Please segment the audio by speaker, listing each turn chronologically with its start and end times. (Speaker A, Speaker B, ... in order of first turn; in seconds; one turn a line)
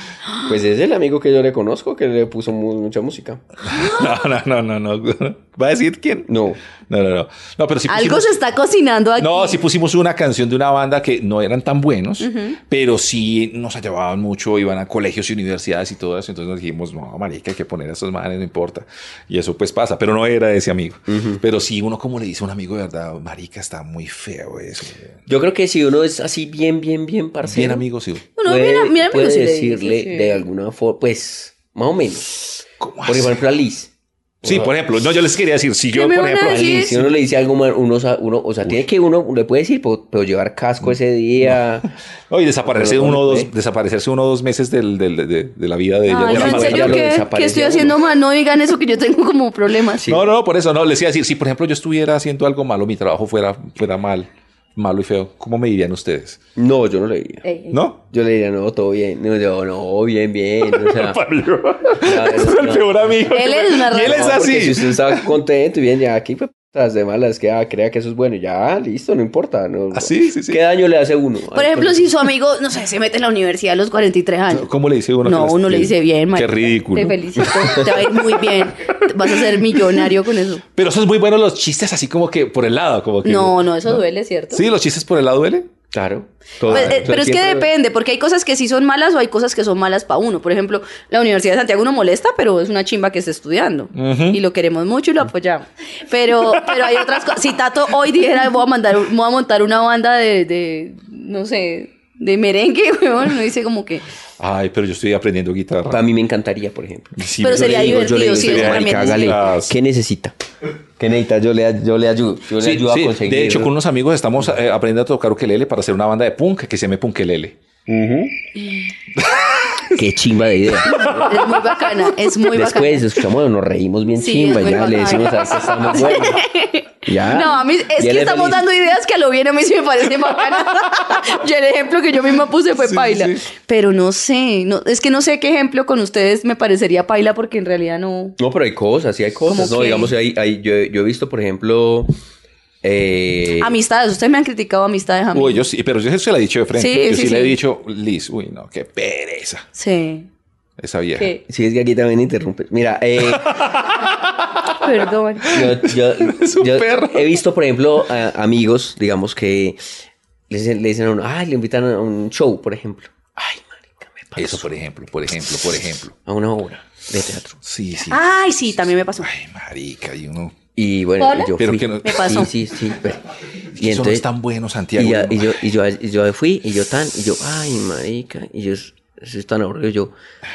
Speaker A: 0.4-3.4
Speaker B: 3.6-6.3
Speaker C: 3.7-4.1
Speaker A: 6.3-6.6
Speaker B: 6.9-8.4
Speaker C: 7.9-9.6
Speaker B: 9.2-25.1
Speaker C: 12.2-12.6
Speaker A: 21.1-21.4
Speaker A: 25.3-27.8
Speaker B: 27.4-28.3
Speaker C: 28.4-30.4
Speaker A: 28.4-33.9
Speaker B: 32.8-33.4
Speaker A: 34.4-34.8
Speaker B: 34.4-37.0
Speaker C: 35.9-37.0
Speaker A: 36.5-41.9
Speaker B: 42.3-47.1
Speaker A: 42.6-43.5
Speaker C: 46.1-50.0
Speaker A: 46.3-48.0
Speaker A: 50.0-50.3
Speaker B: 50.0-56.4
Speaker A: 56.6-57.5
Speaker C: 57.5-57.8
Speaker B: 57.7-58.0
Speaker A: 58.1-61.2
Speaker B: 60.6-65.3
Speaker A: 62.0-63.2
Speaker C: 63.3-64.5
Speaker A: 63.9-72.1
Speaker B: 69.9-70.6
Speaker C: 71.5-74.7
Speaker B: 74.5-80.0
Speaker C: 75.2-80.6
Speaker B: 80.7-85.7
Speaker C: 83.2-84.6
Speaker A: 85.9-87.7
Speaker B: 86.7-87.1
Speaker C: 86.7-104.0
Speaker B: 94.0-94.4
Speaker B: 104.4-106.0
Speaker A: 105.9-110.3
Speaker B: 107.2-109.7
Speaker C: 107.4-109.4
Speaker A: 111.0-113.7
Speaker B: 112.6-117.6
Speaker A: 117.9-118.3
Speaker C: 118.6-118.9
Speaker B: 119.2-119.9
Speaker A: 119.9-121.3
Speaker B: 120.9-121.4
Speaker C: 120.9-123.1
Speaker A: 122.5-126.4
Speaker C: 124.2-138.3
Speaker A: 127.1-128.7
Speaker B: 132.8-133.4
Speaker A: 138.4-142.1
Speaker C: 139.5-140.1
Speaker A: 142.8-143.8
Speaker C: 143.6-145.6
Speaker B: 145.3-149.7
Speaker C: 146.8-147.6
Speaker C: 149.8-150.3
Speaker B: 150.8-151.3
Speaker C: 151.2-151.4
Speaker A: 151.5-153.7
Speaker B: 153.2-154.9
Speaker C: 154.8-155.7
Speaker B: 155.4-157.4
Speaker A: 155.5-159.9
Speaker A: 160.5-164.7
Speaker B: 164.4-166.2
Speaker A: 166.2-167.6
Speaker B: 167.6-168.2
Speaker C: 168.1-169.3
Speaker B: 169.2-170.6
Speaker A: 170.8-174.3
Speaker C: 171.2-172.5
Speaker B: 171.6-172.5
Speaker B: 173.8-175.6
Speaker A: 175.0-180.1